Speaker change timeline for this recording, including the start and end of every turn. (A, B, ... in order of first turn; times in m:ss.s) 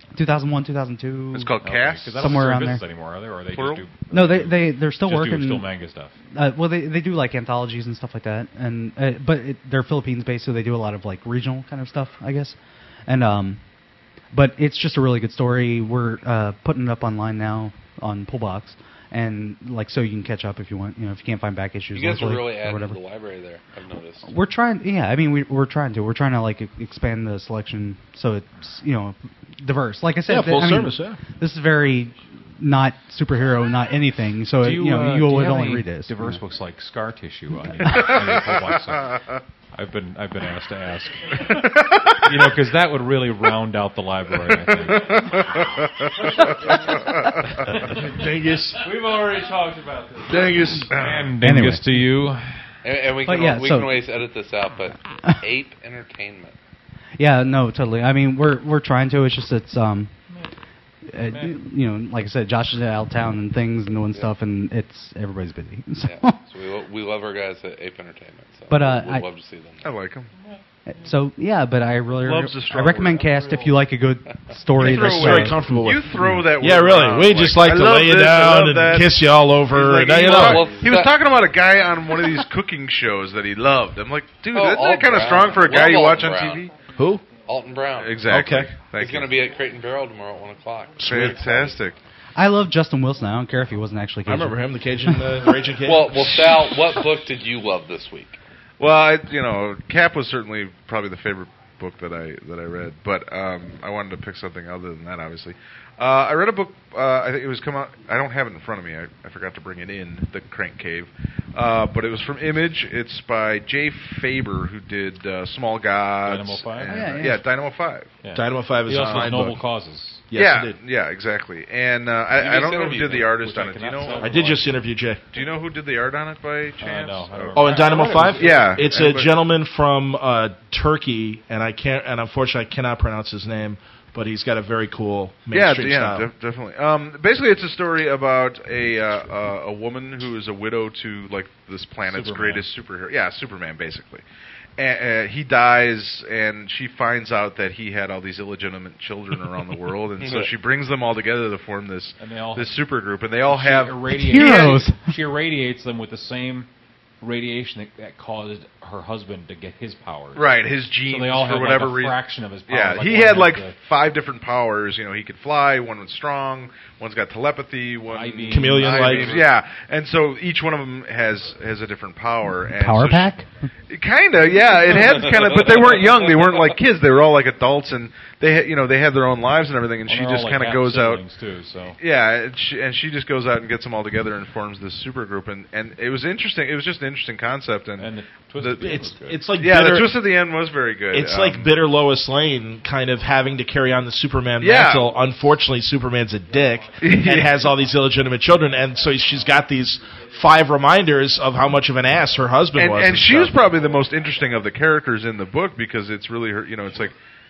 0:00.2-0:01.5 A
0:01.4-0:02.1 B
0:01.6-0:06.1 C
0:02.2-0:02.8 A
0:03.5-0:03.8 B
0:04.1-0:05.7 A
0:06.3-0:12.6 A
0:13.1-0:13.6 A
0:14.3-0:23.0 A
0:21.9-0:24.3 D
0:24.2-0:36.4 A
0:30.3-0:31.2 E
0:34.6-0:39.2 C
0:37.7-0:38.1 A
0:38.1-0:38.4 B
0:39.7-0:45.5 C
0:41.5-0:42.3 B
0:44.5-0:47.5 B
0:46.3-0:47.0 F
0:47.7-0:48.0 C
0:47.9-0:48.8 E
0:48.8-0:50.9 F
0:50.3-0:51.3 B
0:50.8-0:52.7 C
0:51.4-0:52.0 A
0:52.8-0:56.6 D
0:53.3-0:53.9 A
0:57.2-1:00.2 A
1:01.1-1:06.4 A
1:01.2-1:01.6 C
1:06.0-1:09.9 D
1:08.7-1:09.2 A
1:09.8-1:10.3 B
1:10.9-1:15.6 A
1:12.2-1:13.2 B
1:13.0-1:13.8 F
1:14.8-1:20.7 E
1:14.8-1:26.7 B
1:16.2-1:16.4 A
1:20.2-1:21.1 D
1:24.5-1:26.7 D
1:27.0-1:27.2 E
1:27.4-1:28.3 D
1:28.0-1:29.3 B
1:28.3-1:28.7 E
1:29.0-1:31.8 D
1:31.0-1:32.0 B
1:31.1-1:31.3 E
1:32.4-1:35.5 A
1:34.3-1:36.7 E
1:35.8-1:38.4 D
1:38.8-1:58.2 B
1:56.3-1:57.2 C
1:56.9-1:57.4 A
1:58.2-2:00.3 C
1:58.3-1:59.6 E
1:58.9-1:59.3 B
2:00.3-2:00.8 E
2:00.3-2:04.5 B
2:02.3-2:03.2 D
2:03.0-2:04.7 C
2:04.2-2:05.2 E
2:05.3-2:09.3 B
2:06.8-2:09.1 C
2:07.6-2:16.3 E
2:15.5-2:24.2 B
2:22.1-2:22.6 C
2:24.8-2:34.8 B
2:30.2-2:30.5 D
2:32.2-2:32.8 C
2:33.5-2:36.7 C
2:34.1-2:35.1 A
2:37.2-2:43.8 C
2:40.4-2:53.4 B
2:48.1-2:49.4 C
2:48.5-2:49.4 E
2:52.8-2:53.5 A
2:53.9-3:01.2 B
3:00.1-3:02.0 C
3:02.0-3:11.7 B
3:08.0-3:09.4 C
3:08.8-3:10.2 E
3:11.1-3:23.6 E
3:14.6-3:15.2 B
3:17.0-3:17.7 B
3:22.7-3:27.2 B